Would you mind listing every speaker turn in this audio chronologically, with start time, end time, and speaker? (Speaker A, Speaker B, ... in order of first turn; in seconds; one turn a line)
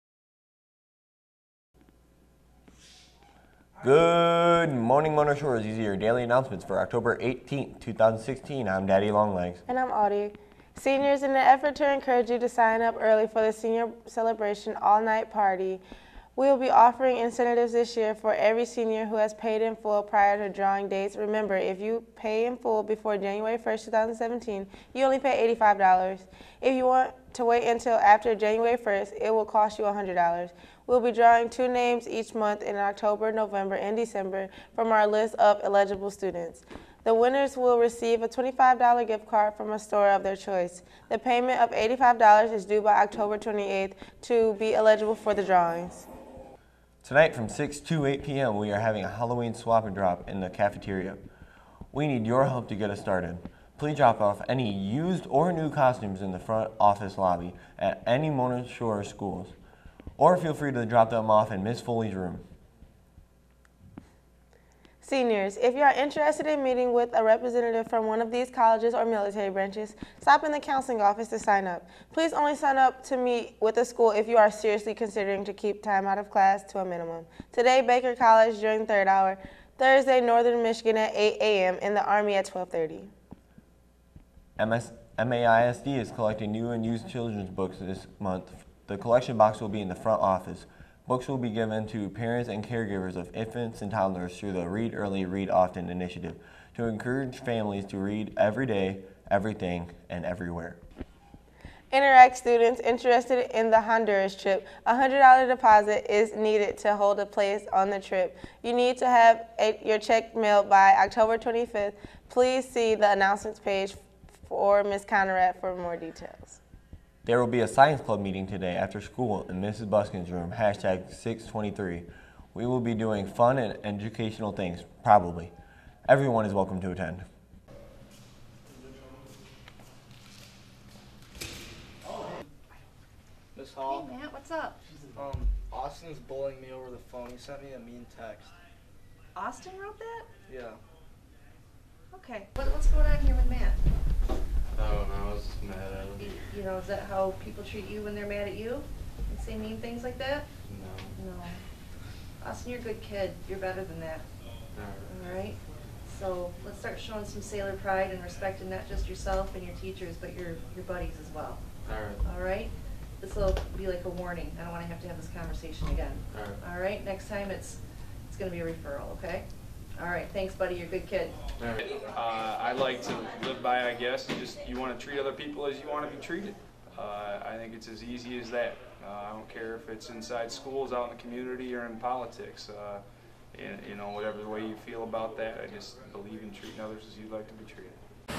Speaker A: 3.8-9.6
Speaker B: 9.7-15.8
Speaker B: 16.4-46.1
Speaker A: 47.0-51.2
Speaker A: 51.9-59.5
Speaker A: 60.2-62.4
Speaker B: 65.0-83.1
Speaker A: 84.6-100.8
Speaker B: 101.9-116.6
Speaker A: 117.2-125.5
Speaker A: 126.1-127.2
Speaker C: 133.6-134.1
Speaker D: 133.8-134.8
Speaker C: 135.2-138.5
Speaker D: 139.3-140.3
Speaker C: 140.5-140.8
Speaker D: 142.1-143.8
Speaker E: 144.8-146.3
Speaker D: 146.2-150.5
Speaker E: 150.7-151.1
Speaker D: 151.2-151.6
Speaker D: 152.4-154.2
Speaker E: 154.7-155.1
Speaker D: 155.1-161.6
Speaker E: 161.8-162.2
Speaker D: 162.2-171.4
Speaker F: 171.9-183.0
Speaker F: 183.5-188.0